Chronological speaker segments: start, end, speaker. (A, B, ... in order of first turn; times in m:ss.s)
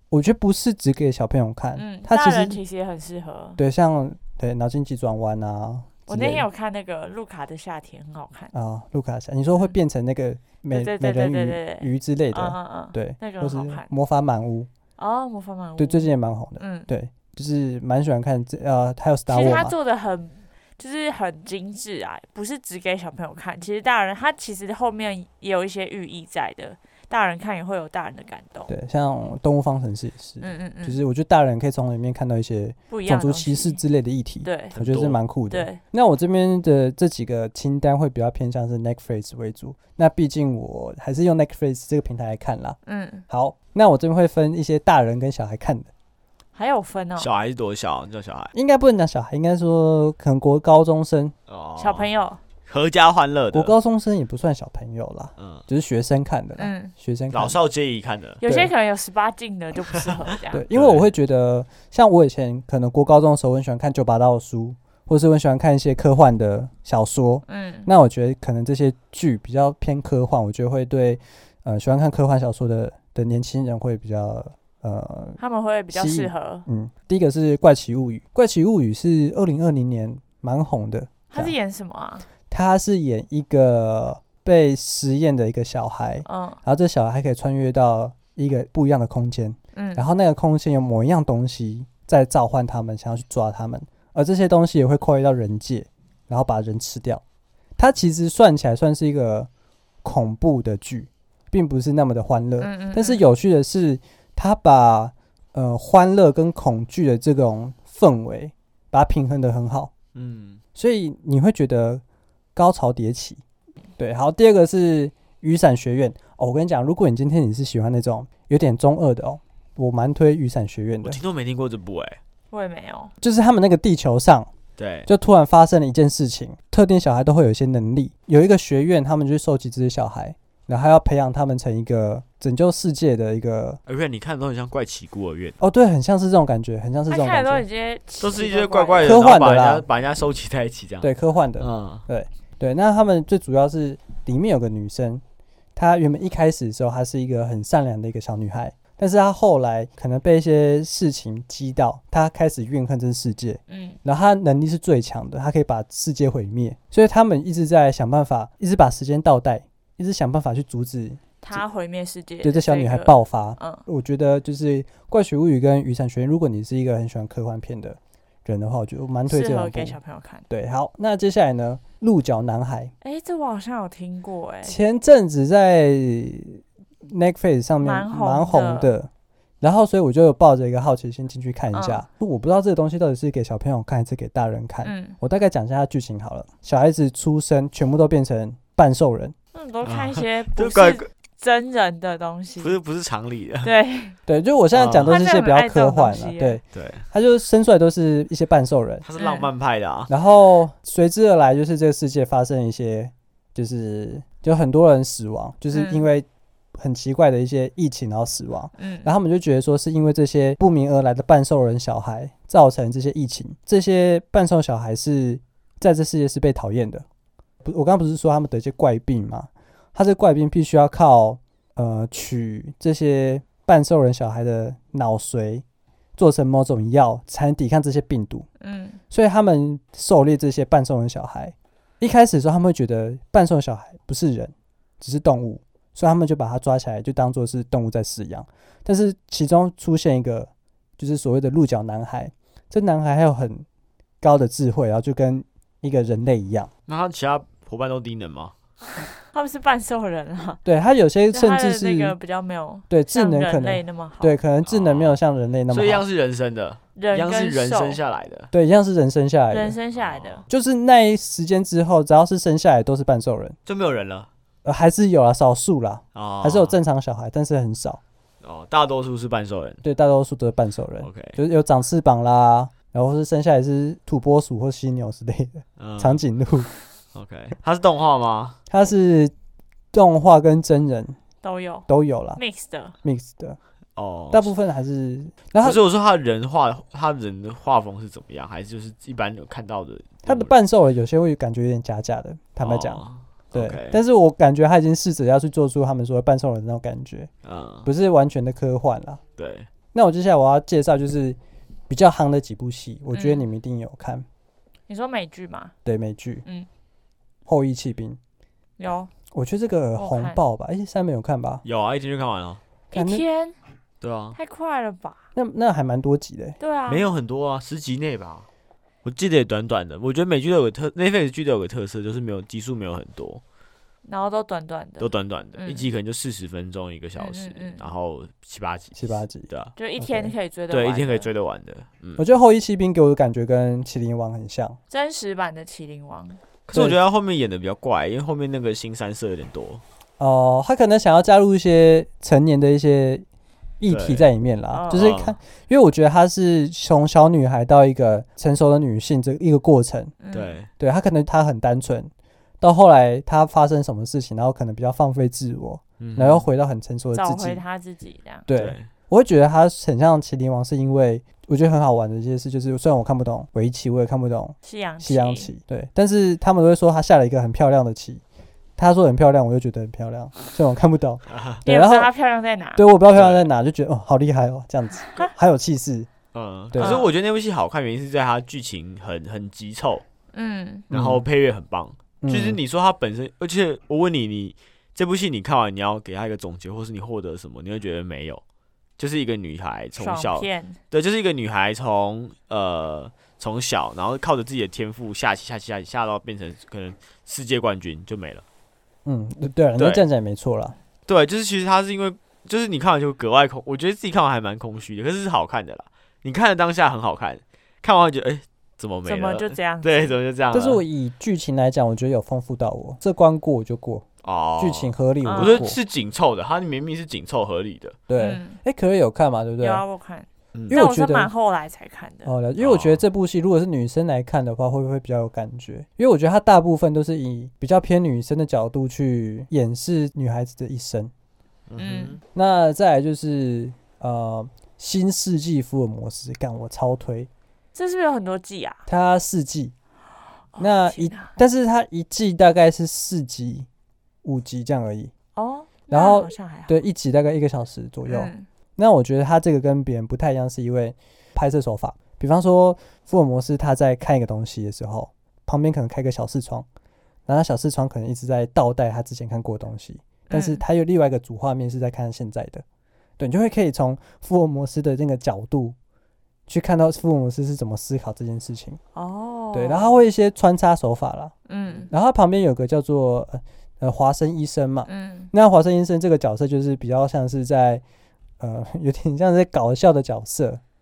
0:00.1-0:02.6 A
0:01.8-0:03.6 B
0:03.6-0:06.5 A
0:06.1-0:08.5 B
0:08.5-0:14.7 A
0:10.7-0:13.9 B
0:15.0-0:16.9 B
0:15.8-0:19.8 A
0:19.3-0:28.7 B
0:28.7-0:42.8 A
0:30.4-0:31.0 B
0:32.9-0:33.8 B
0:34.4-0:34.8 B
0:34.7-0:35.2 C
0:35.5-0:35.8 B
0:42.9-0:43.2 B
0:43.3-0:45.9 A
0:46.6-0:47.3 B
0:47.2-0:48.5 C
0:48.5-0:51.3 A
0:51.5-0:52.1 C
0:51.8-0:52.4 B
0:52.7-0:53.7 C
0:53.5-0:57.6 A
0:55.4-0:55.6 C
0:56.6-0:56.9 B
0:57.3-0:58.4 C
0:58.4-1:00.6 B
0:58.4-0:58.7 A
1:00.5-1:15.4 A
1:00.7-1:01.1 C
1:07.5-1:07.9 B
1:15.4-1:16.7 B
1:15.9-1:21.5 A
1:21.3-1:22.3 B
1:22.5-1:37.2 A
1:26.3-1:26.6 B
1:29.8-1:30.0 B
1:37.8-1:39.5 A
1:40.0-1:49.9 A
1:42.6-1:43.2 B
1:50.2-1:50.6 C
1:50.8-1:52.0 A
1:52.6-1:53.4 A
1:54.0-2:01.2 A
2:01.0-2:02.2 C
2:02.5-2:03.1 B
2:03.2-2:04.5 A
2:04.8-2:05.1 C
2:05.1-2:13.8 A
2:13.9-2:15.6 C
2:15.6-2:17.6 A
2:17.1-2:19.4 B
2:18.2-2:22.0 C
2:19.0-2:19.9 A
2:21.0-2:25.2 A
2:25.8-2:41.6 A
2:33.7-2:34.0 B
2:41.4-2:43.8 B
2:42.4-2:50.0 A
2:49.3-2:50.5 B
2:50.5-2:52.9 A
2:53.0-2:54.8 B
2:54.6-2:59.1 A
2:57.8-2:58.9 B
2:59.6-3:09.4 A
3:01.7-3:02.0 B
3:04.8-3:05.2 B
3:09.5-3:12.8 B
3:09.8-3:11.1 C
3:12.6-3:13.7 C
3:13.6-3:14.2 B
3:14.3-3:19.0 A
3:14.7-3:15.2 C
3:15.1-3:16.6 B
3:16.7-3:17.1 C
3:19.0-3:20.1 C
3:19.2-3:19.5 B
3:20.1-3:26.3 A
3:25.7-3:26.1 B
3:26.8-3:37.1 A
3:28.8-3:29.1 B
3:37.6-3:45.6 A
3:46.2-3:48.5 A
3:48.6-3:49.0 B
3:49.1-4:03.6 A
4:04.2-4:06.7 A
4:06.9-4:08.5 C
4:09.3-4:10.6 B
4:10.6-4:12.2 A
4:11.3-4:14.4 B
4:12.9-4:16.0 A
4:14.6-4:18.5 C
4:17.0-4:18.0 B
4:18.5-4:19.8 A
4:19.5-4:20.4 B
4:19.9-4:20.5 C
4:20.5-4:23.6 A
4:23.7-4:24.3 C
4:24.6-4:28.0 A
4:26.2-4:26.8 C
4:28.4-4:29.8 C
4:29.8-4:36.7 A
4:31.0-4:31.4 C
4:35.8-4:36.2 C
4:37.1-4:38.6 C
4:38.7-4:39.3 A
4:39.9-4:41.2 A
4:41.4-4:42.9 B
4:41.9-4:42.4 A
4:43.0-4:43.6 A
4:44.0-4:44.5 C
4:44.3-4:45.8 A
4:45.6-4:50.5 C
4:50.3-4:57.3 A
4:52.6-4:54.0 C
4:57.4-4:57.9 C
4:57.9-4:59.2 A
4:59.4-4:59.7 C
4:59.9-5:01.4 A
5:01.9-5:04.2 A
5:03.1-5:03.4 B
5:04.9-5:05.7 B
5:05.8-5:06.4 A
5:07.5-5:08.2 A
5:08.8-5:09.1 B
5:09.3-5:11.6 A
5:10.0-5:10.4 B
5:11.6-5:12.6 C
5:12.9-5:13.6 B
5:12.9-5:13.2 A
5:14.0-5:14.4 C
5:14.4-5:15.2 B
5:15.4-5:16.6 A
5:16.6-5:17.1 B
5:16.9-5:18.5 C
5:19.0-5:23.4 C
5:24.0-5:25.9 B
5:25.0-5:29.7 C
5:27.2-5:27.9 B
5:29.0-5:30.3 A
5:29.8-5:31.3 B
5:30.7-5:32.2 C
5:32.2-5:34.8 A
5:34.9-5:36.4 B
5:36.7-5:39.8 C
5:40.2-5:43.2 A
5:43.8-5:50.2 A
5:43.9-5:44.3 C
5:44.7-5:45.1 B
5:44.9-5:45.4 C
5:50.2-5:50.6 B
5:50.3-5:50.7 C
5:50.8-5:57.6 A
5:56.0-5:56.5 C
5:57.1-5:58.5 B
5:58.5-6:08.2 A
5:58.5-5:58.9 C
6:04.6-6:05.5 B
6:08.8-6:12.1 A
6:11.3-6:11.6 C
6:11.6-6:12.8 B
6:12.8-6:16.1 A
6:13.1-6:13.5 C
6:16.3-6:20.0 C
6:16.7-6:17.0 A
6:16.8-6:17.1 B
6:20.3-6:20.9 B
6:20.9-6:21.3 A
6:20.9-6:28.4 C
6:22.2-6:22.6 A
6:29.0-6:38.4 C
6:30.0-6:30.8 B
6:39.0-6:40.8 A
6:39.8-6:40.0 C
6:41.1-6:50.8 C
6:49.1-6:50.2 B
6:50.5-6:54.0 A
6:54.2-6:58.0 C
6:54.6-6:55.8 A
6:55.2-6:55.7 B
6:58.1-6:59.8 A
6:58.2-6:58.6 B
6:59.6-7:02.3 B
7:00.7-7:01.3 A
7:02.3-7:11.1 A
7:02.6-7:03.0 C
7:11.7-7:12.2 C
7:11.8-7:12.2 B
7:12.3-7:17.3 A
7:17.8-7:18.8 B
7:18.9-7:19.7 A
7:20.5-7:21.4 B
7:20.6-7:23.7 A
7:24.2-7:25.1 A
7:25.4-7:26.8 B
7:25.9-7:36.7 A
7:28.1-7:28.5 B
7:37.3-7:42.6 A
7:40.3-7:40.6 B
7:43.2-7:45.8 A
7:46.5-7:48.8 A
7:49.0-7:50.0 B
7:49.5-7:51.3 A
7:51.5-7:51.9 B
7:51.9-7:57.8 A
7:54.9-7:55.3 B
7:58.4-8:00.6 A